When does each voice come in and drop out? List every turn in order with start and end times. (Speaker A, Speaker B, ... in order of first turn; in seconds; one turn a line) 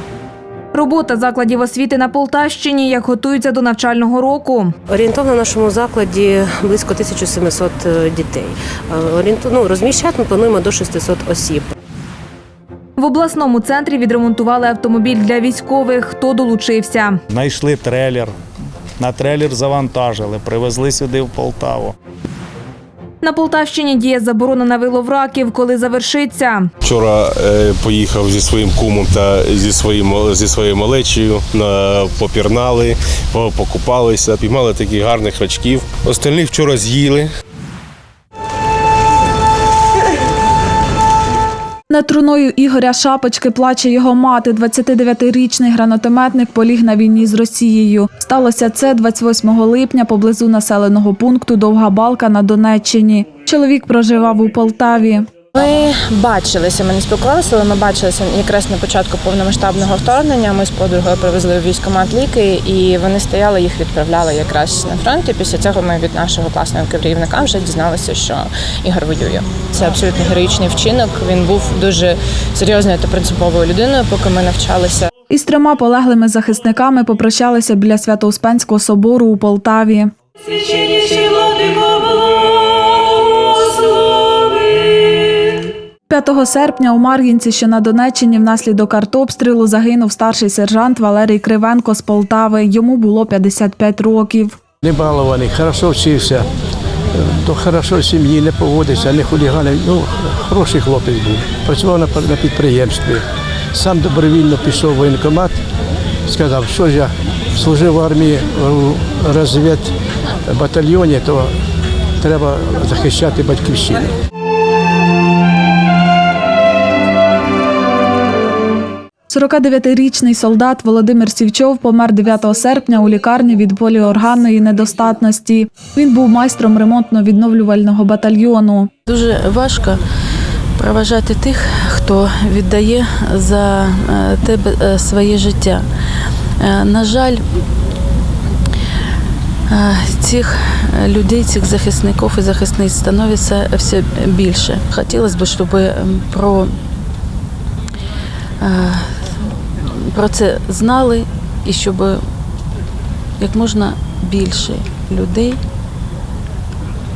Speaker A: 0.7-4.7
Speaker B: 4.9-11.7
Speaker A: 13.0-17.2
Speaker C: 17.3-18.3
Speaker C: 19.0-21.9
Speaker A: 23.2-26.7
Speaker D: 26.8-37.3
Speaker E: 41.9-55.2
Speaker F: 55.5-75.1
Speaker E: 75.3-80.1
Speaker E: 86.1-94.6
Speaker G: 94.8-96.4
Speaker G: 97.4-103.2
Speaker G: 103.7-105.5
Speaker G: 106.3-109.9
Speaker G: 110.5-111.5
Speaker G: 112.2-114.0
Speaker E: 119.3-128.9
Speaker H: 129.1-130.0
Speaker H: 130.8-135.8
Speaker H: 136.6-137.4
Speaker H: 139.7-146.7
Speaker H: 148.6-149.2
Speaker H: 149.9-152.2
Speaker H: 153.4-155.6